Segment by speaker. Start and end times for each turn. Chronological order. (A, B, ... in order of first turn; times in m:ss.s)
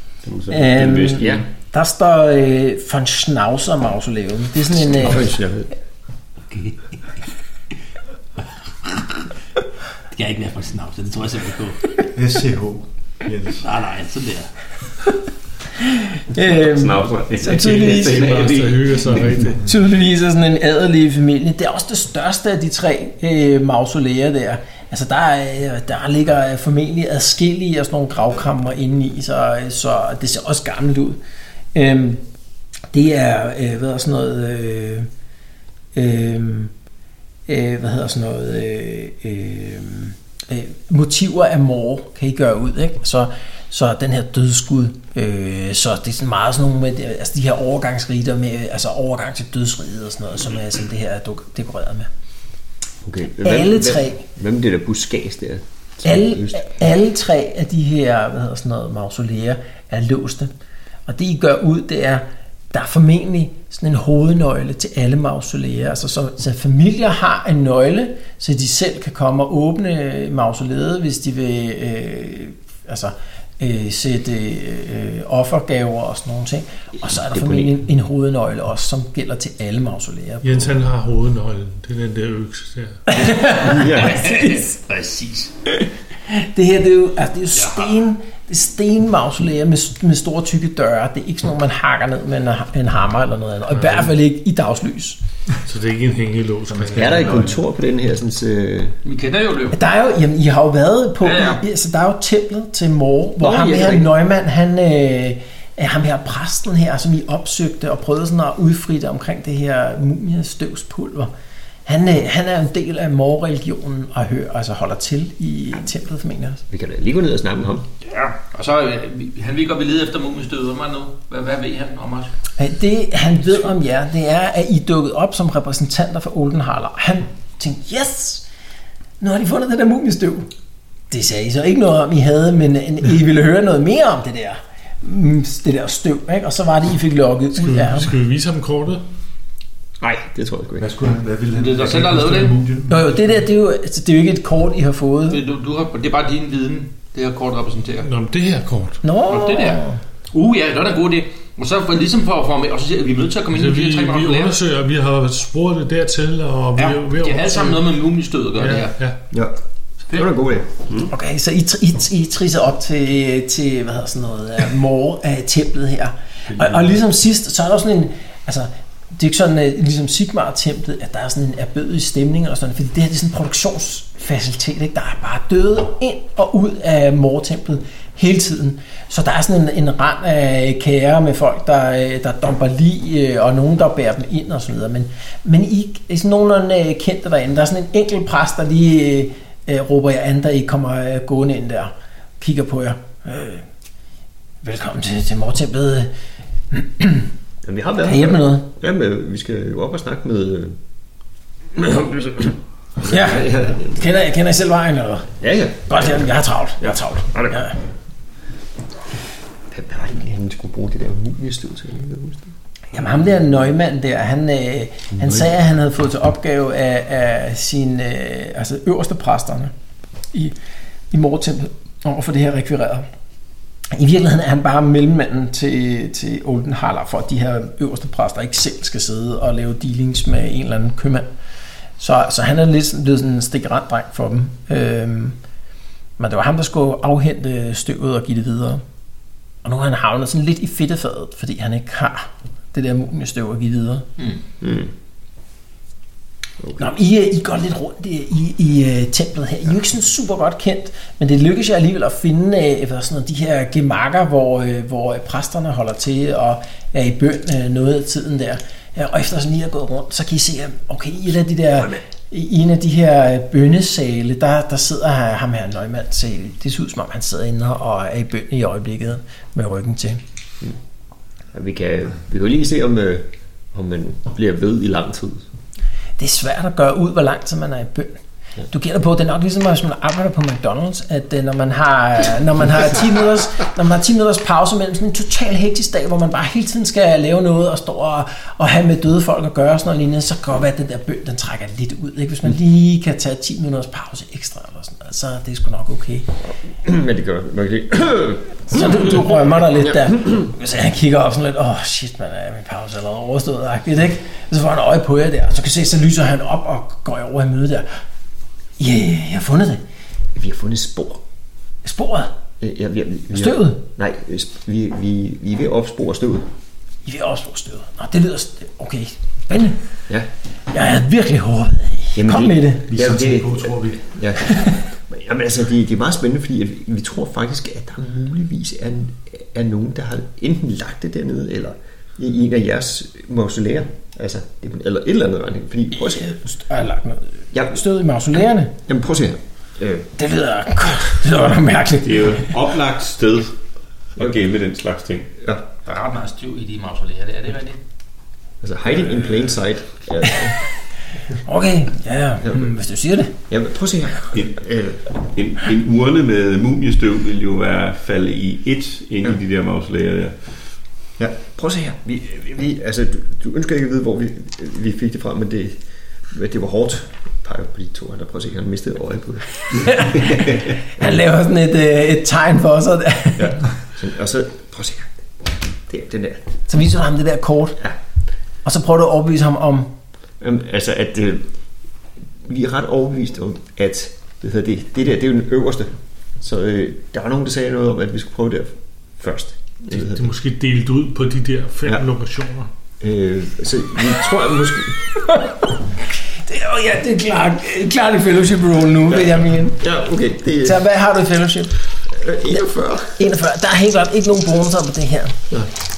0:00.2-0:01.4 A
0:00.5-0:05.3 B
0:01.2-0:01.4 C
0:04.8-0:05.7 C
0:06.5-0:06.8 D
0:08.8-0:09.2 D
0:10.1-0:12.0 D
0:12.1-0:13.6 E
0:13.6-0:14.5 D
0:15.8-0:18.4 B
0:16.6-0:19.2 A
0:17.6-0:19.6 F
0:19.6-0:31.2 B
0:31.7-0:32.2 B
0:32.9-0:35.1 B
0:36.0-0:36.7 B
0:37.5-0:52.1 B
0:53.0-0:56.7 C
0:53.4-0:54.2 B
0:56.0-1:00.5 B
1:01.1-1:20.8 B
1:17.1-1:17.8 C
1:20.4-1:23.0 F
1:23.1-1:24.6 B
1:23.6-1:25.5 D
1:23.7-1:24.2 C
1:26.3-1:35.2 B
1:27.6-1:27.9 D
1:33.7-1:34.1 F
1:35.6-1:37.6 F
1:36.8-1:37.5 E
1:36.9-1:39.0 C
1:39.0-1:39.8 D
1:39.7-1:51.3 B
1:41.2-1:41.6 D
1:43.4-1:44.1 C
1:51.9-1:56.6 B
1:56.7-1:57.9 C
1:58.1-2:02.3 D
2:02.6-2:08.4 B
2:09.2-2:10.5 B
2:11.1-2:18.1 B
2:17.6-2:19.0 F
2:20.0-2:20.9 C
2:20.8-2:23.2 E
2:21.6-2:22.6 D
2:22.9-2:25.4 B
2:25.3-2:28.1 D
2:28.0-2:29.0 F
2:29.0-2:30.0 B
2:29.3-2:34.6 D
2:33.5-2:37.8 F
2:36.8-2:39.0 D
2:38.6-2:39.2 F
2:40.1-2:40.7 C
2:41.1-3:13.6 B
3:14.6-3:16.1 B
3:16.7-3:17.3 B
3:17.6-3:20.8 C
3:18.0-3:18.7 B
3:21.8-3:24.0 C
3:23.0-3:27.8 B
3:25.4-3:26.2 C
3:26.8-3:27.6 C
3:29.7-3:32.5 C
3:32.9-3:39.7 B
3:41.1-3:43.1 B
3:43.9-3:51.3 B
3:52.0-3:55.4 B
3:56.2-3:58.8 B
3:59.6-4:04.1 B
4:04.6-4:04.9 C
4:06.8-4:30.2 B
4:31.5-4:35.5 C
4:36.2-4:38.2 B
4:38.7-4:56.3 B
4:56.8-4:58.8 C
4:58.7-5:07.9 B
5:08.8-5:09.8 B
5:10.4-5:11.2 C
5:11.8-5:12.3 B
5:12.6-5:16.5 C
5:13.3-5:13.8 B
5:17.0-5:19.8 B
5:20.7-5:22.9 B
5:22.2-5:36.4 C
5:22.9-5:24.1 E
5:24.4-5:24.8 B
5:36.0-5:38.8 B
5:37.5-5:37.8 C
5:38.9-5:40.1 C
5:40.2-5:42.6 B
5:42.0-5:43.6 A
5:44.2-5:45.3 A
5:45.8-5:47.8 D
5:48.6-5:50.6 C
5:51.3-5:53.4 B
5:53.5-5:55.0 C
5:55.2-6:00.5 A
6:01.2-6:11.1 C
6:09.8-6:13.6 B
6:13.4-6:15.2 C
6:15.9-6:16.6 C
6:16.7-6:17.8 B
6:18.6-6:19.9 B
6:20.4-6:21.5 C
6:22.4-6:30.3 C
6:29.9-6:32.7 F
6:33.0-6:35.0 C
6:35.2-6:35.7 B
6:36.4-6:39.8 B
6:39.8-6:40.8 C
6:40.6-6:41.8 B
6:42.1-6:43.2 C
6:43.2-6:45.4 B